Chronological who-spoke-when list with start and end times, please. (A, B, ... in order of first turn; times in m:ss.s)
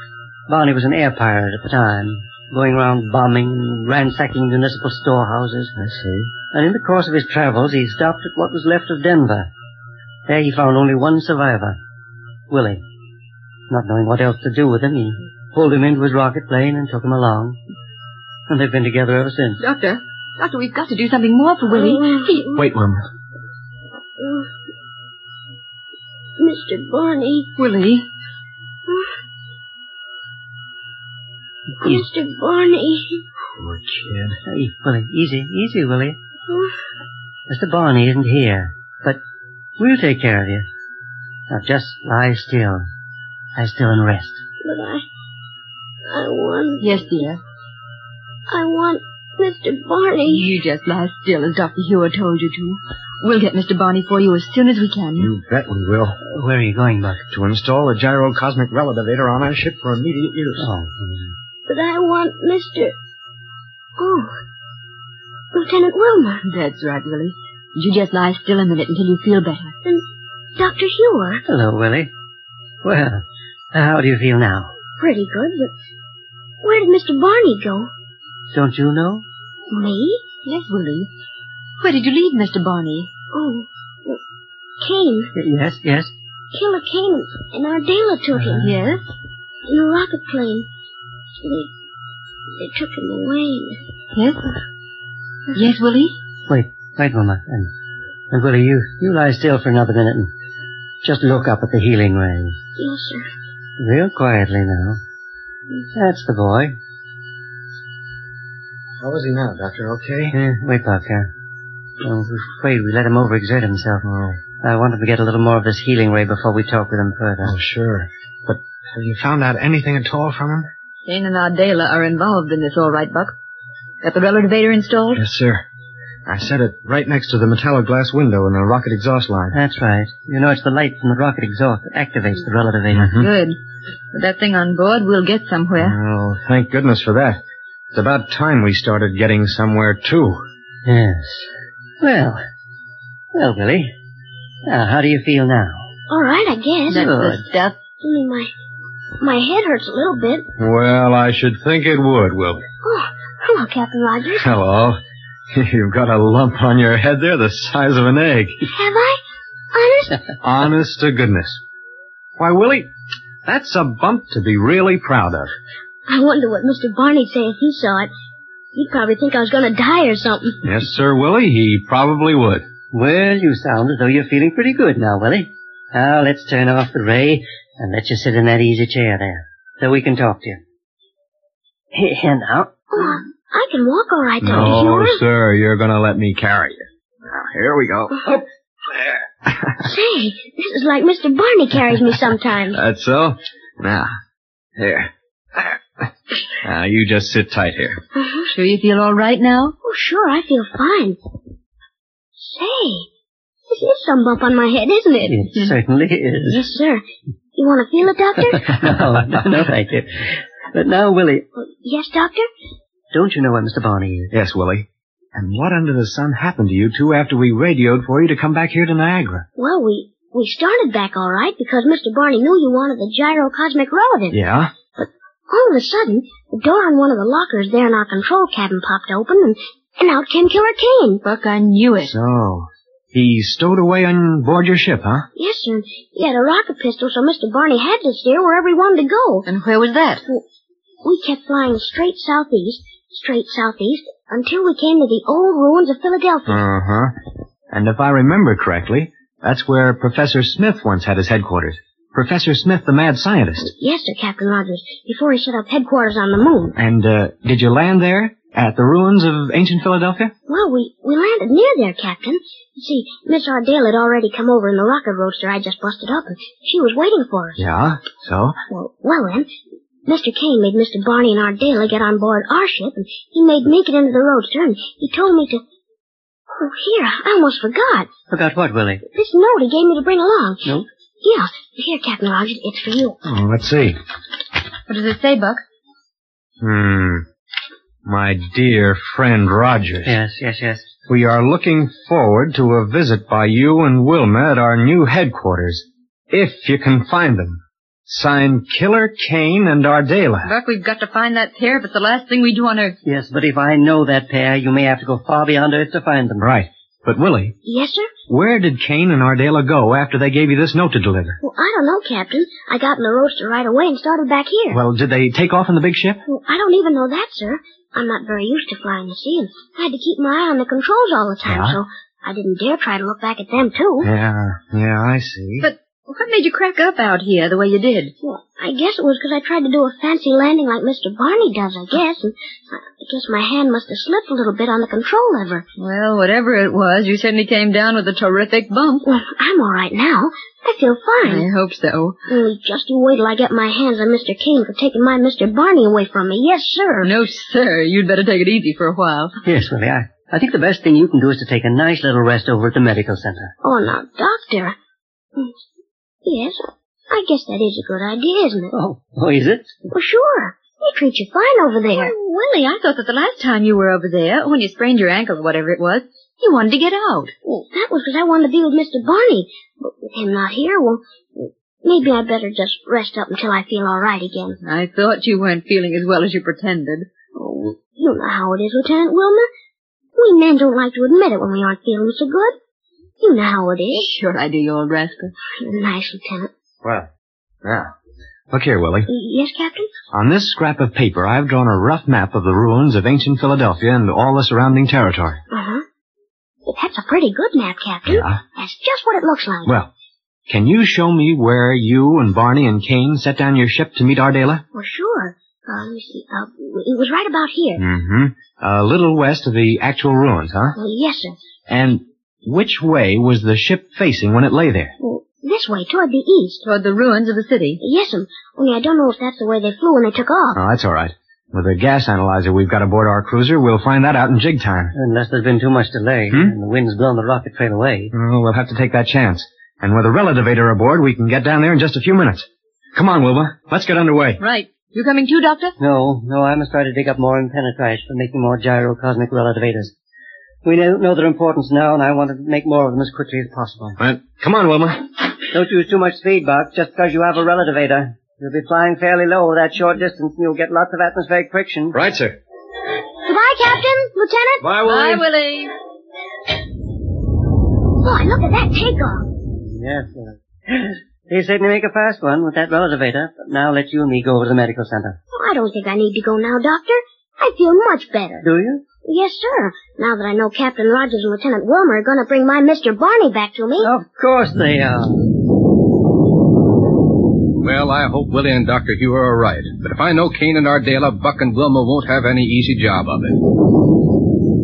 0:00.5-0:05.7 A
0:05.8-0:06.3 B
0:06.5-0:09.5 A
0:10.3-0:11.8 A
0:12.5-0:12.8 A
0:13.7-0:17.6 A
0:18.5-0:19.6 A
0:19.6-0:22.5 C
0:21.7-0:22.6 D
0:22.6-0:23.0 B
0:24.2-0:24.5 D
0:26.4-0:27.5 D
0:27.6-0:28.0 C
0:31.8-0:33.2 D
0:33.6-0:34.4 B
0:34.5-0:36.2 A
0:36.5-0:36.8 D
0:37.5-0:39.2 A
0:39.8-0:40.7 A
0:41.5-0:42.9 A
0:43.6-0:44.4 A
0:44.6-0:45.0 D
0:46.1-0:47.2 D
0:46.8-0:47.4 C
0:48.5-0:50.6 D
0:50.2-0:55.3 C
0:55.2-0:56.2 B
0:56.3-0:57.2 A
0:57.3-1:00.7 B
1:00.6-1:01.3 A
1:01.7-1:03.0 D
1:04.0-1:04.3 D
1:05.5-1:06.4 D
1:06.4-1:09.7 C
1:10.6-1:11.4 D
1:11.5-1:12.1 A
1:12.8-1:14.8 A
1:15.0-1:15.7 D
1:16.6-1:17.9 D
1:18.5-1:19.3 A
1:19.7-1:20.2 D
1:20.5-1:21.1 C
1:21.8-1:23.1 C
1:23.3-1:24.2 D
1:24.8-1:25.3 D
1:25.4-1:26.1 A
1:26.5-1:28.8 D
1:28.3-1:28.7 A
1:28.6-1:29.0 C
1:29.7-1:30.7 D
1:31.4-1:31.7 D
1:32.6-1:33.8 D
1:34.1-1:34.6 C
1:35.5-1:36.1 C
1:36.5-1:37.7 A
1:38.3-1:40.3 A
1:41.0-1:42.6 A
1:42.8-1:43.3 D
1:43.8-1:45.0 A
1:45.9-1:46.8 A
1:49.0-1:50.4 B
1:50.3-1:51.3 A
1:52.0-1:54.0 A
1:54.0-1:54.4 B
1:54.6-1:57.5 A
1:57.4-2:00.7 B
2:01.1-2:03.3 C
2:04.0-2:05.2 C
2:05.2-2:05.6 B
2:06.3-2:09.6 B
2:09.5-2:13.1 A
2:13.0-2:13.3 B
2:13.1-2:13.6 C
2:14.1-2:16.0 C
2:15.8-2:17.4 B
2:17.9-2:20.4 B
2:20.8-2:22.4 A
2:23.3-2:23.9 A
2:24.6-2:25.9 A
2:26.1-2:27.1 D
2:26.9-2:27.8 C
2:27.0-2:27.5 A
2:28.0-2:28.5 D
2:29.2-2:30.5 D
2:30.6-2:32.6 B
2:32.8-2:34.6 D
2:34.4-2:35.0 B
2:35.5-2:38.6 B
2:38.7-2:39.2 D
2:39.7-2:40.3 D
2:40.4-2:41.6 B
2:42.4-2:42.9 B
2:43.4-2:45.5 B
2:46.1-2:48.1 D
2:48.8-2:50.7 D
2:50.6-2:52.7 B
2:52.9-3:00.6 A
3:01.9-3:02.8 A
3:02.9-3:05.2 D
3:04.4-3:08.4 B
3:08.9-3:09.9 B
3:09.8-3:12.8 D
3:12.7-3:14.1 B
3:14.8-3:15.8 B
3:16.6-3:18.0 B
3:18.2-3:18.5 D
3:18.5-3:19.8 C
3:19.8-3:21.2 D
3:22.4-3:23.1 D
3:23.7-3:25.6 D
3:25.3-3:26.6 A
3:26.5-3:27.0 D
3:27.6-3:28.8 D
3:28.7-3:31.4 A
3:31.6-3:32.5 D
3:33.1-3:34.3 A
3:34.3-3:39.4 B
3:39.6-3:44.4 D
3:44.3-3:44.7 B
3:45.0-3:51.2 D
3:51.2-3:52.1 C
3:52.0-3:55.3 B
3:55.4-3:59.5 D
3:59.5-4:00.2 C
4:01.0-4:06.6 D
4:06.5-4:07.1 B
4:07.7-4:13.7 B
4:13.7-4:16.7 D
4:16.8-4:20.3 B
4:20.5-4:27.6 D
4:27.6-4:28.6 B
4:28.7-4:29.5 D
4:30.1-4:35.6 D
4:36.5-4:38.1 D
4:38.3-4:39.0 A
4:39.1-4:40.7 D
4:41.2-4:43.2 D
4:43.2-4:44.0 B
4:44.9-4:45.6 C
4:46.6-4:47.3 B
4:48.0-4:50.2 B
4:50.0-4:50.9 A
4:51.1-5:00.5 B
5:00.4-5:03.0 C
5:03.1-5:06.4 A
5:06.4-5:07.6 B
5:07.6-5:08.1 D
5:08.3-5:11.4 B
5:11.4-5:14.8 D
5:14.7-5:16.2 B
5:16.3-5:24.1 D
5:21.4-5:21.8 B
5:24.0-5:25.7 B
5:25.6-5:28.1 C
5:28.2-5:35.7 D
5:35.8-5:39.0 C
5:39.1-5:41.5 D
5:41.2-5:42.2 C
5:42.3-5:47.1 D
5:47.0-5:49.4 C
5:49.4-5:53.5 A
5:53.6-5:54.8 D
5:56.2-5:58.7 D
5:58.7-5:59.7 A
5:59.9-6:02.1 D
6:01.9-6:07.3 C
6:07.4-6:14.6 D
6:14.6-6:17.1 C
6:17.4-6:19.5 D
6:20.2-6:22.6 D
6:23.2-6:24.1 D
6:23.9-6:25.3 C
6:25.6-6:26.5 D
6:26.8-6:27.1 B
6:27.6-6:27.9 B
6:28.5-6:29.1 B
6:29.1-6:29.9 D
6:30.1-6:35.4 B
6:35.5-6:35.8 D
6:36.7-6:39.7 D
6:38.1-6:38.4 B
6:40.5-6:44.6 B
6:44.7-6:47.8 D
6:47.8-6:50.8 B
6:50.8-6:51.4 D
6:51.7-6:55.0 B
6:55.0-6:56.6 D
6:56.6-6:57.8 C
6:57.8-7:00.6 D
7:00.6-7:04.9 B
7:05.0-7:08.1 A
7:08.1-7:14.4 B
7:14.4-7:15.7 C
7:15.8-7:19.9 A
7:20.6-7:24.0 A
7:24.0-7:25.1 B
7:25.5-7:32.0 A
7:31.9-7:32.4 B
7:33.2-7:34.7 D
7:34.6-7:35.2 B
7:34.8-7:35.8 C
7:38.0-7:39.3 D
7:39.7-7:45.2 A
7:45.3-7:48.4 D
7:48.4-7:48.8 A
7:49.0-7:53.9 D
7:53.8-7:55.2 A
7:57.6-8:03.4 E